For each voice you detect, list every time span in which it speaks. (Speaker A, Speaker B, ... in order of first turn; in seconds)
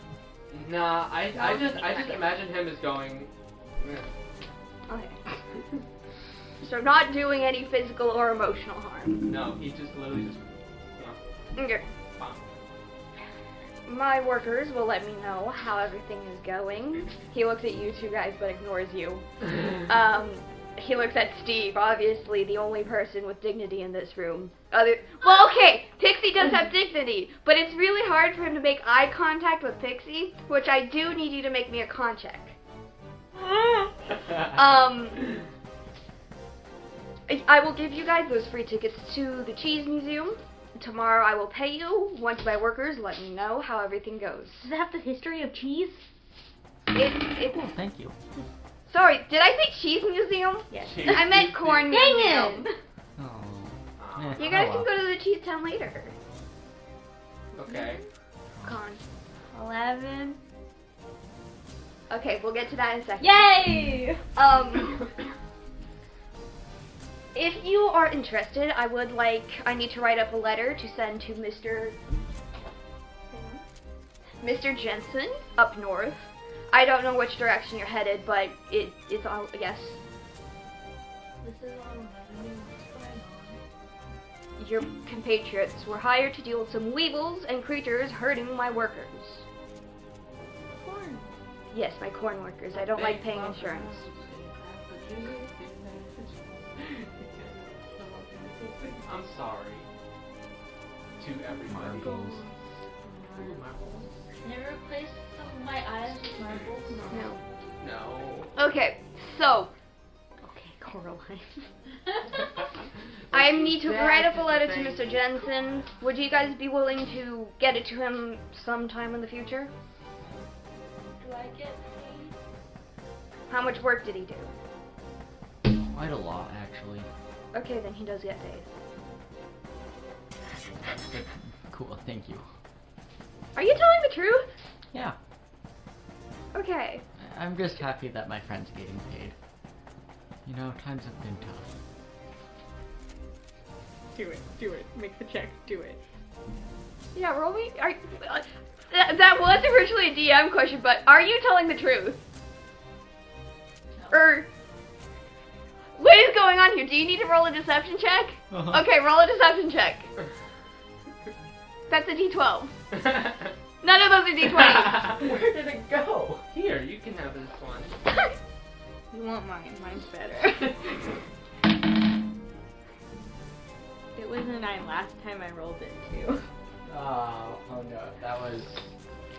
Speaker A: 0.5-4.1, 9.2-11.2, 12.2-12.5, 50.8-51.9, 54.0-54.5, 57.5-58.0, 92.7-99.9, 101.2-102.3, 103.3-104.1, 107.8-108.6, 113.3-115.2, 162.9-163.5, 164.5-168.0
Speaker B: 1.3-2.4, 4.9-5.2, 6.6-9.2, 11.6-11.8, 13.9-32.6, 34.4-35.4, 37.3-44.7, 46.9-47.7, 48.9-52.8, 54.4-56.1, 58.6-59.0, 62.1-63.7, 64.3-65.1, 67.3-72.0, 74.4-80.0, 84.6-89.5, 91.7-94.1, 102.1-102.5, 107.1-107.4, 108.5-109.7, 113.3-119.7, 123.5-124.5, 127.5-128.7, 133.6-134.5, 136.5-137.0, 147.1-152.2, 154.1-154.5, 156.0-160.1, 161.9-162.7, 163.8-165.2
Speaker C: 33.4-33.9, 44.6-46.0, 50.7-51.1, 57.7-58.0, 59.5-60.4, 63.2-64.2, 73.3-73.6, 90.8-91.3, 106.9-107.3, 110.4-111.7, 144.1-146.0, 169.1-170.9, 174.2-176.4
Speaker D: 47.5-48.1, 53.2-54.9, 101.7-102.4, 125.7-127.1, 131.1-132.4, 137.2-139.3, 140.4-141.7, 158.5-158.8, 176.8-178.9
Speaker E: 51.9-52.7, 81.4-83.6, 104.4-107.0, 121.2-122.4, 153.9-154.2